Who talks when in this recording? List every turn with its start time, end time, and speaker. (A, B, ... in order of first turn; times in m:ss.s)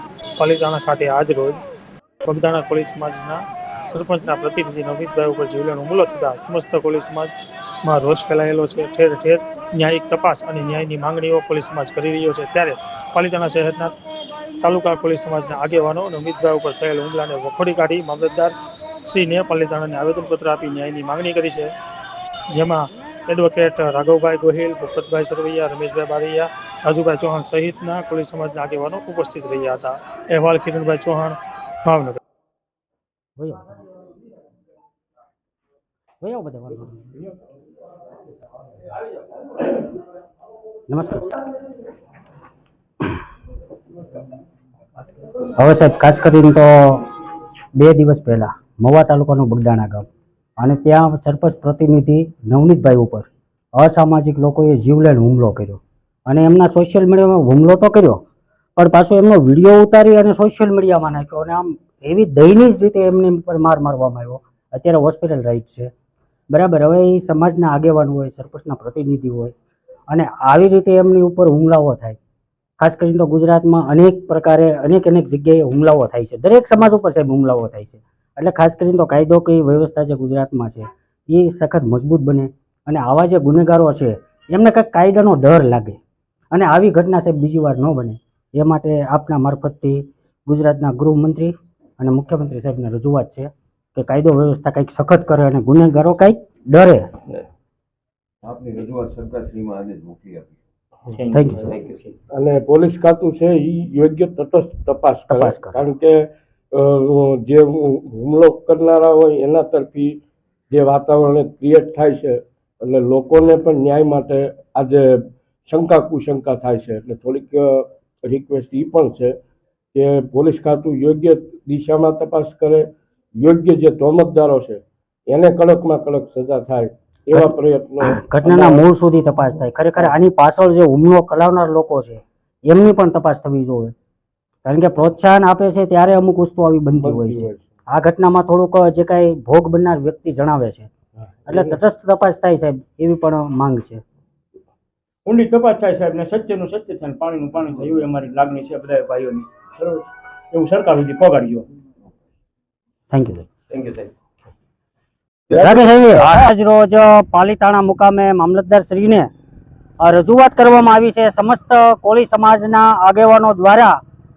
0:00.4-0:01.6 A
0:02.2-0:07.3 A
0:07.8-0:13.9 A
0:14.6-0:21.7 A
0:22.5-0:32.2 A
0:33.4-0:33.8 B
0:36.2-0:37.1 B
0:40.9-0:41.3 B
0:45.6-0:47.0 B
0:47.8-0:50.0 B
0:50.6-0:58.2 B
0:58.8-1:05.9 B
1:06.5-1:09.5 B
1:10.1-1:12.2 B
1:12.8-1:26.0 B
1:26.5-1:37.0 B
1:38.4-1:40.6 C
1:41.1-1:42.1 D
1:41.3-1:41.7 B
1:41.6-1:42.0 C
1:42.3-1:50.2 E
1:45.3-1:45.8 B
1:50.7-1:59.3 E
1:59.9-2:02.9 E
2:03.4-2:08.8 E
2:07.3-2:13.9 B
2:14.6-2:20.9 B
2:17.0-2:17.6 E
2:21.4-2:21.8 E
2:21.5-2:24.0 B
2:25.2-2:31.6 D
2:33.1-2:33.5 B
2:33.7-2:34.1 D
2:35.5-2:39.3 B
2:40.0-2:44.0 B